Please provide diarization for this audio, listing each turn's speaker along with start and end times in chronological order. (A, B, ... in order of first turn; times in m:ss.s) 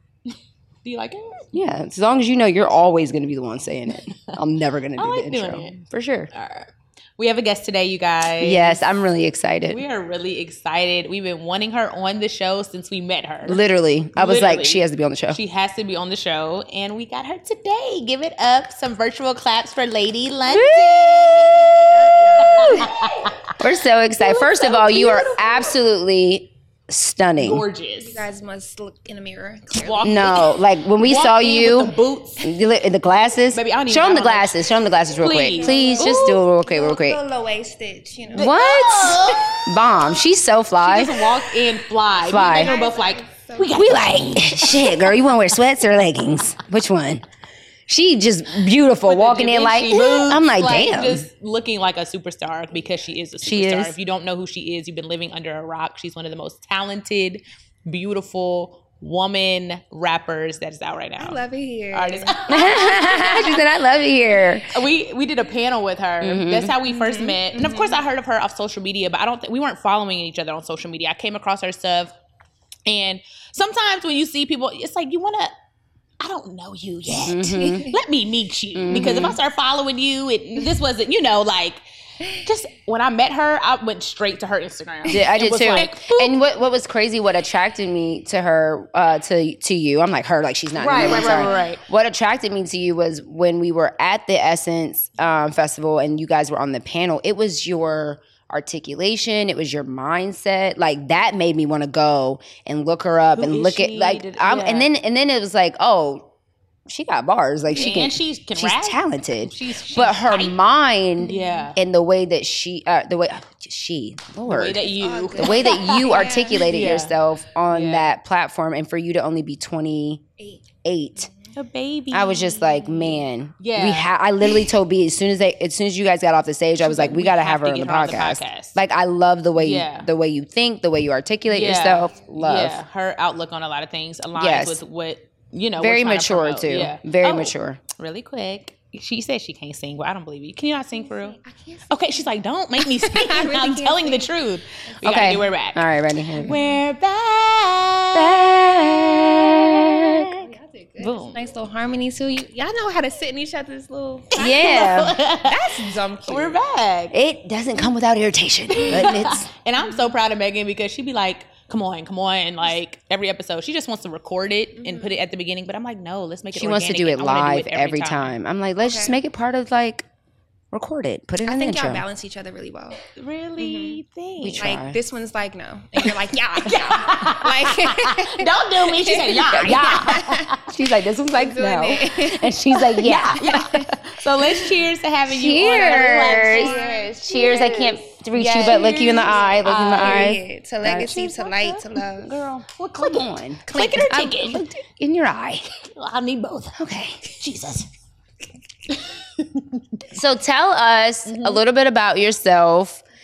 0:00.8-0:01.5 A
0:01.5-0:06.3 B
0:05.0-0:08.8 A
0:08.4-0:09.8 B
0:09.7-0:13.6 A
0:13.5-0:15.4 B
0:14.2-0:23.6 A
0:20.5-0:22.9 B
0:22.1-0:22.9 C
0:23.6-0:27.6 B
0:24.1-0:25.8 A
0:27.4-0:28.2 A
0:28.0-0:30.4 C
0:29.8-0:32.5 A
0:30.0-0:37.2 B
0:33.5-0:34.6 A
0:35.2-0:36.4 A
0:35.5-0:38.5 C
0:38.4-0:39.9 A
0:38.4-0:41.3 B
0:40.8-0:45.3 A
0:42.2-0:42.7 B
0:42.2-0:44.3 C
0:43.7-0:47.2 B
0:47.9-0:51.3 B
0:49.0-1:01.4 A
0:53.4-0:54.0 B
1:01.2-1:03.6 C
1:01.9-1:03.6 A
1:02.5-1:04.8 B
1:04.6-1:12.2 A
1:06.2-1:06.8 B
1:06.8-1:08.0 C
1:12.9-1:15.5 A
1:16.2-1:26.4 A
1:17.2-1:17.9 B
1:17.5-1:17.9 C
1:18.8-1:19.4 B
1:25.1-1:46.3 B
1:30.8-1:31.8 A
1:31.0-1:31.7 C
1:43.3-1:44.9 A
1:46.9-2:00.2 B
1:47.7-1:50.6 A
1:51.2-1:51.7 C
1:51.2-1:51.8 A
1:54.4-1:57.2 A
1:55.0-1:56.7 C
1:57.7-1:58.1 A
2:00.4-2:00.7 C
2:00.8-2:01.3 B
2:01.2-2:01.5 C
2:01.6-2:04.7 A
2:02.1-2:12.8 B
2:06.8-2:08.8 A
2:09.6-2:10.1 A
2:11.5-2:21.4 A
2:14.4-2:14.8 B
2:15.8-2:17.8 B
2:20.9-2:24.3 C
2:21.9-2:25.8 A
2:24.9-2:25.6 C
2:25.0-2:26.6 B
2:26.4-2:28.8 A
2:26.4-2:26.8 C
2:28.1-2:30.5 B
2:29.4-2:29.6 A
2:30.0-2:36.6 C
2:31.0-2:31.4 B
2:34.4-2:37.2 A
2:34.4-2:35.2 B
2:37.1-2:39.5 B
2:38.8-2:39.1 C
2:38.8-2:48.3 A
2:39.8-2:40.1 C
2:44.8-2:45.2 C
2:46.5-2:50.1 B
2:48.8-2:49.2 C
2:50.7-2:52.0 B
2:51.4-2:53.0 C
2:53.2-2:54.7 A
2:53.6-2:54.0 C
2:54.4-2:55.0 B
2:54.6-3:00.5 C
2:56.6-3:00.7 A
2:59.5-3:03.7 B
3:01.3-3:03.9 C
3:03.0-3:07.0 A
3:05.3-3:15.7 B
3:05.9-3:12.4 C
3:08.4-3:10.3 A
3:10.9-3:11.8 A
3:12.7-3:14.6 A
3:13.7-3:14.4 C
3:15.9-3:17.9 A
3:16.8-3:17.2 B
3:18.9-3:20.2 A
3:20.1-3:23.0 B
3:21.2-3:21.6 A